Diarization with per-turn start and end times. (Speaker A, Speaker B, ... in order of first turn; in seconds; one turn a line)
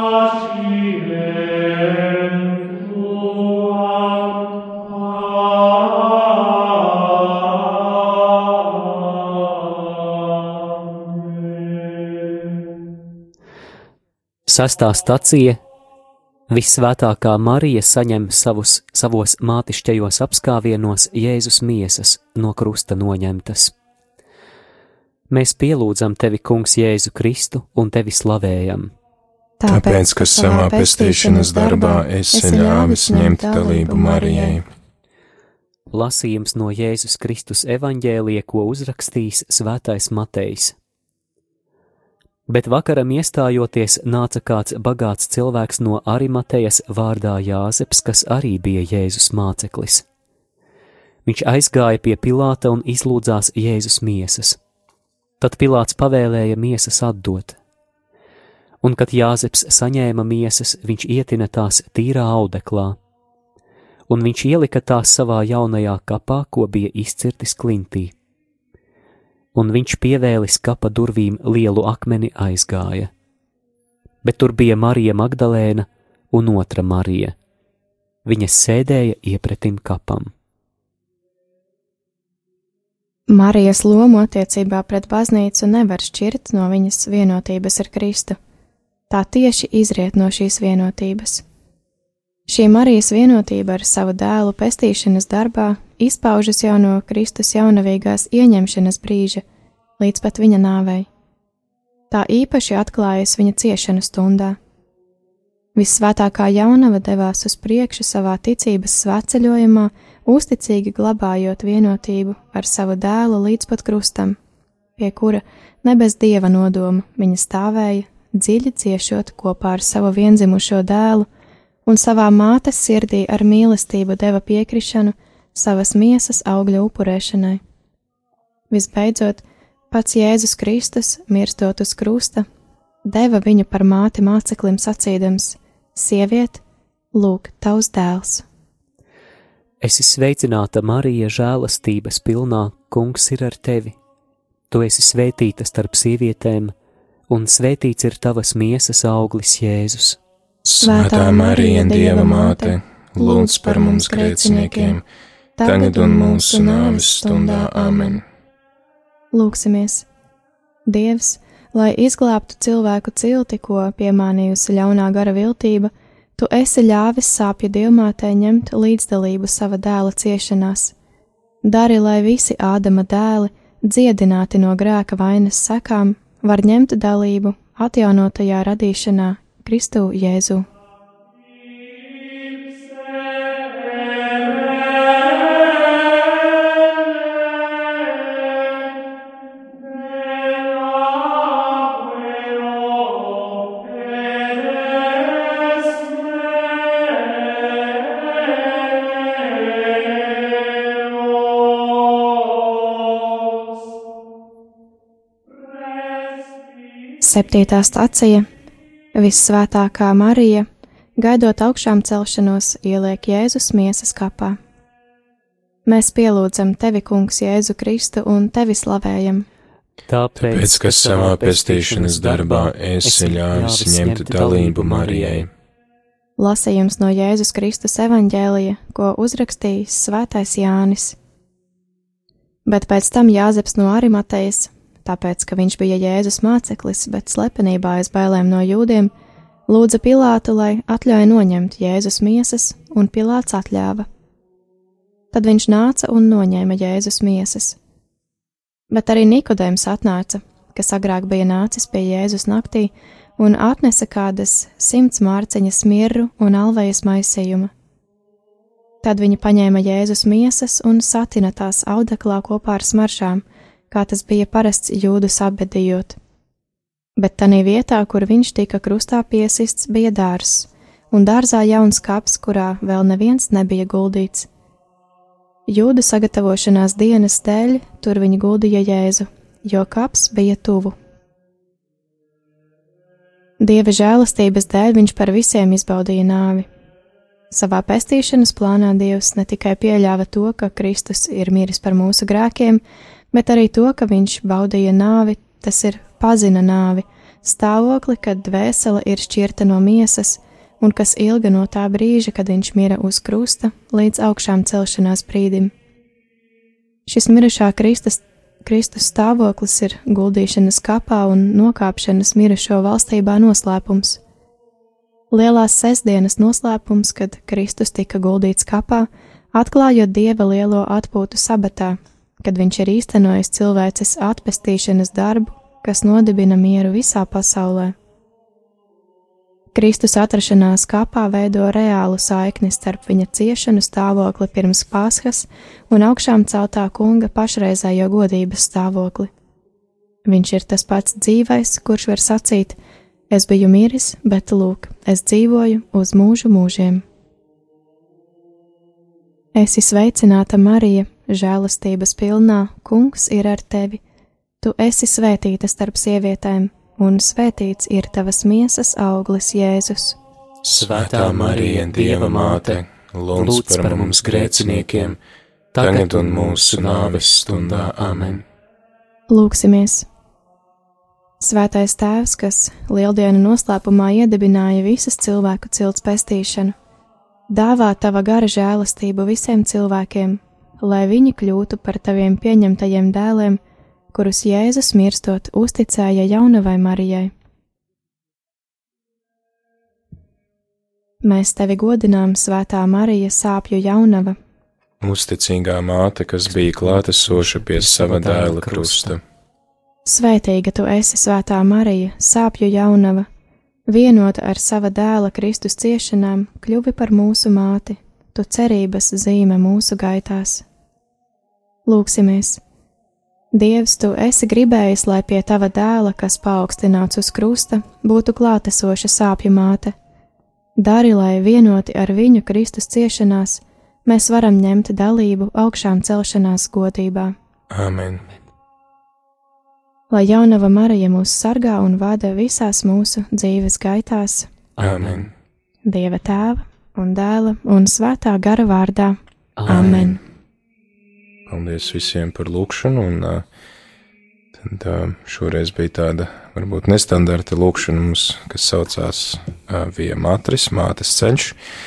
Speaker A: 14.5-15.6
Speaker A: 16.5-23.7
Speaker A: 25.3-28.9
Speaker B: 29.6-34.6
Speaker C: 29.6-34.6
Speaker A: 35.9-40.7
Speaker A: 42.5-50.0
Speaker A: 51.2-54.6
Speaker A: 55.4-57.6
Speaker A: 58.8-63.0
Speaker A: 64.1-68.1
Speaker A: 69.5-73.1
Speaker A: 74.2-77.3
Speaker A: 78.2-80.3
Speaker B: 83.3-88.4
Speaker B: 89.1-91.4
Speaker B: 92.5-99.4
Speaker B: 100.0-101.1
Speaker B: 102.1-104.6
Speaker B: 105.8-114.4
Speaker B: 115.0-121.3
Speaker B: 121.8-127.6
Speaker B: 128.7-132.5
Speaker B: 133.1-136.6
Speaker B: 137.1-138.4
Speaker A: 139.8-143.9
Speaker A: 144.7-146.7
Speaker A: 147.3-150.2
Speaker C: 150.6-155.0
Speaker B: 150.8-155.0
Speaker B: 155.6-158.2
Speaker C: 155.6-158.2
Speaker B: 159.3-160.1
Speaker B: 160.9-170.9
Speaker B: 171.6-180.7
Speaker B: 207.2-208.4
Speaker B: 209.1-210.7
Speaker B: 211.2-214.6
Speaker B: 215.8-219.4
Speaker A: 220.1-225.4
Speaker C: 220.4-225.5
Speaker B: 226.4-231.2
Speaker B: 232.7-239.1
Speaker B: 239.7-244.1
Speaker B: 245.3-247.8
Speaker B: 248.9-257.7
Speaker B: 259.0-266.2
Speaker B: 267.2-274.5
Speaker B: 275.7-280.9
Speaker B: 283.6-286.7
Speaker B: 287.5-292.8
Speaker B: 293.3-305.7
Speaker B: 307.1-314.2
Speaker B: 315.3-327.9
Speaker B: 329.7-339.3
Speaker B: 340.2-342.8
Speaker B: 343.3-347.0
Speaker B: 349.5-354.0
Speaker B: 354.6-360.2
Speaker C: 360.6-365.2
Speaker A: 360.7-362.8
Speaker A: 363.3-365.1
Speaker A: 365.7-368.4
Speaker C: 365.8-368.4
Speaker B: 369.3-370.1
Speaker B: 371.4-376.7
Speaker B: 377.5-383.6
Speaker B: 384.1-387.3
Speaker B: 391.2-394.4
Speaker C: 395.0-399.2
Speaker A: 396.5-399.1
Speaker B: 400.1-403.3
Speaker B: 403.9-410.6
Speaker B: 411.9-412.6
Speaker B: 413.5-419.9
Speaker B: 420.8-427.3
Speaker C: 427.7-428.2
Speaker B: 430.1-434.5
Speaker A: 434.8-435.3
Speaker C: 434.8-435.3
Speaker B: 435.9-440.2
Speaker A: 439.6-440.1
Speaker C: 439.7-440.2
Speaker C: 441.5-443.4
Speaker C: 444.5-451.6